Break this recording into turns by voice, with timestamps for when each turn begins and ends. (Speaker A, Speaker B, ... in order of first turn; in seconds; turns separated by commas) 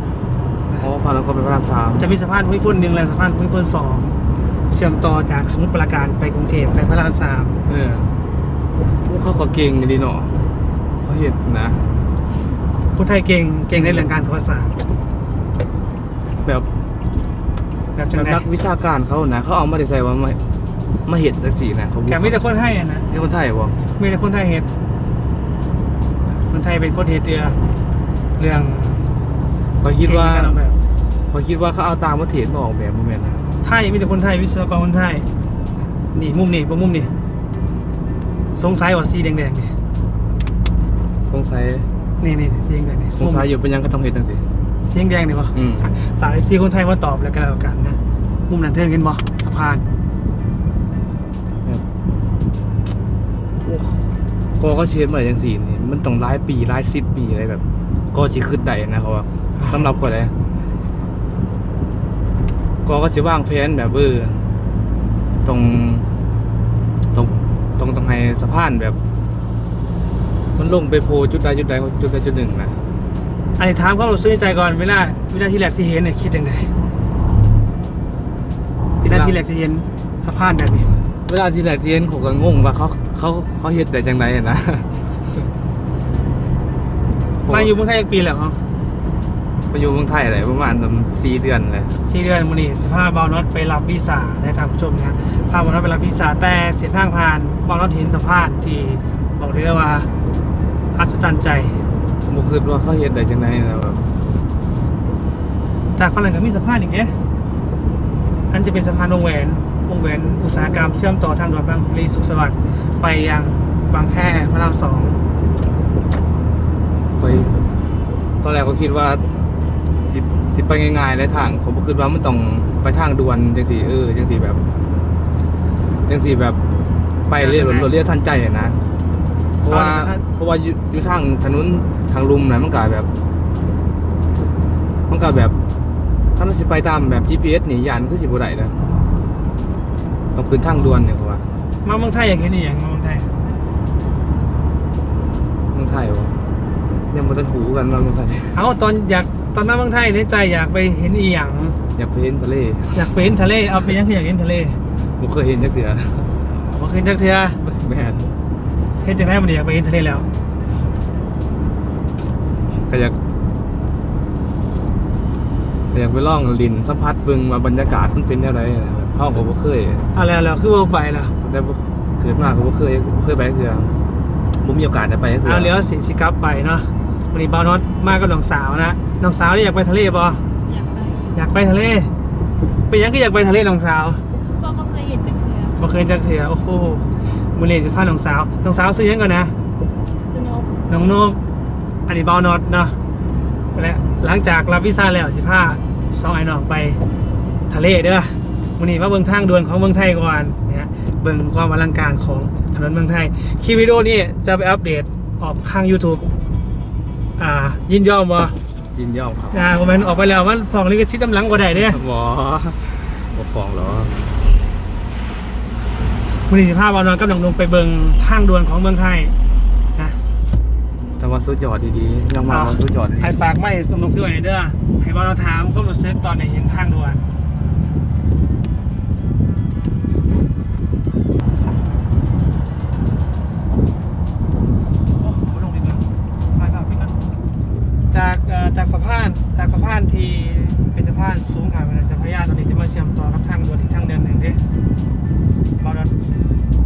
Speaker A: 0.8-2.0, Speaker B: 2.0-4.2, Speaker B: 4.7-7.6, Speaker A: 7.7-8.2, Speaker A: 9.1-10.3, Speaker A: 11.0-11.8, Speaker B: 12.9-14.7, Speaker A: 13.7-14.1, Speaker A: 16.4-16.7, Speaker B: 17.9-18.4, Speaker A: 18.1-20.4, Speaker A: 21.0-22.4, Speaker B: 22.1-23.1, Speaker A: 23.1-23.8, Speaker B: 24.0-24.7, Speaker B: 26.4-27.6, Speaker B: 28.4-29.1, Speaker A: 29.8-30.6, Speaker B: 30.0-30.8, Speaker A: 31.3-33.4, Speaker B: 33.6-35.3, Speaker B: 36.1-37.1, Speaker B: 38.5-39.7, Speaker A: 41.3-41.9, Speaker B: 42.2-43.5, Speaker A: 43.2-44.4, Speaker B: 44.8-49.8, Speaker A: 45.5-45.9, Speaker A: 53.6-57.6, Speaker A: 58.1-60.3, Speaker B: 59.6-59.9, Speaker A: 62.8-64.4, Speaker A: 65.4-66.1, Speaker A: 67.1-69.0, Speaker A: 70.5-72.8, Speaker B: 73.6-76.7, Speaker B: 79.0-80.9, Speaker A: 79.0-79.4, Speaker A: 81.3-85.4, Speaker A: 87.4-87.7, Speaker B: 87.5-88.6, Speaker A: 89.7-91.9, Speaker B: 92.0-100.1, Speaker B: 100.9-101.8, Speaker A: 102.3-104.0, Speaker B: 105.9-107.2, Speaker B: 108.5-115.2, Speaker A: 117.1-117.5, Speaker A: 118.4-119.4, Speaker A: 120.0-124.6, Speaker A: 126.1-126.6, Speaker A: 127.3-128.8, Speaker B: 127.4-127.9, Speaker A: 129.6-133.2, Speaker B: 129.7-130.2, Speaker A: 135.1-135.6, Speaker A: 136.3-138.8, Speaker A: 140.3-141.4, Speaker B: 141.8-143.3, Speaker A: 145.7-146.4, Speaker A: 147.1-148.6, Speaker B: 148.5-151.8, Speaker A: 151.9-153.1, Speaker B: 152.9-154.8, Speaker A: 155.2-156.4, Speaker B: 156.6-157.6, Speaker A: 157.6-158.3, Speaker B: 159.0-160.3, Speaker A: 162.8-163.2, Speaker A: 165.9-170.1, Speaker B: 170.1-171.3, Speaker A: 171.4-173.9, Speaker A: 174.5-175.7, Speaker B: 175.4-180.4, Speaker C: 180.6-181.5, Speaker B: 181.3-182.1, Speaker B: 182.9-184.2, Speaker C: 184.4-185.8, Speaker B: 185.8-189.5, Speaker C: 190.2-190.7, Speaker B: 190.9-191.4, Speaker B: 192.1-193.0, Speaker B: 193.7-197.0, Speaker B: 197.7-206.3, Speaker B: 207.4-208.5, Speaker A: 208.9-209.8, Speaker B: 209.5-212.0, Speaker A: 211.7-214.3, Speaker B: 216.5-219.3, Speaker A: 221.2-223.3, Speaker B: 222.5-227.3, Speaker B: 231.5-231.9, Speaker B: 235.2-237.2, Speaker B: 238.1-244.6, Speaker B: 245.8-246.1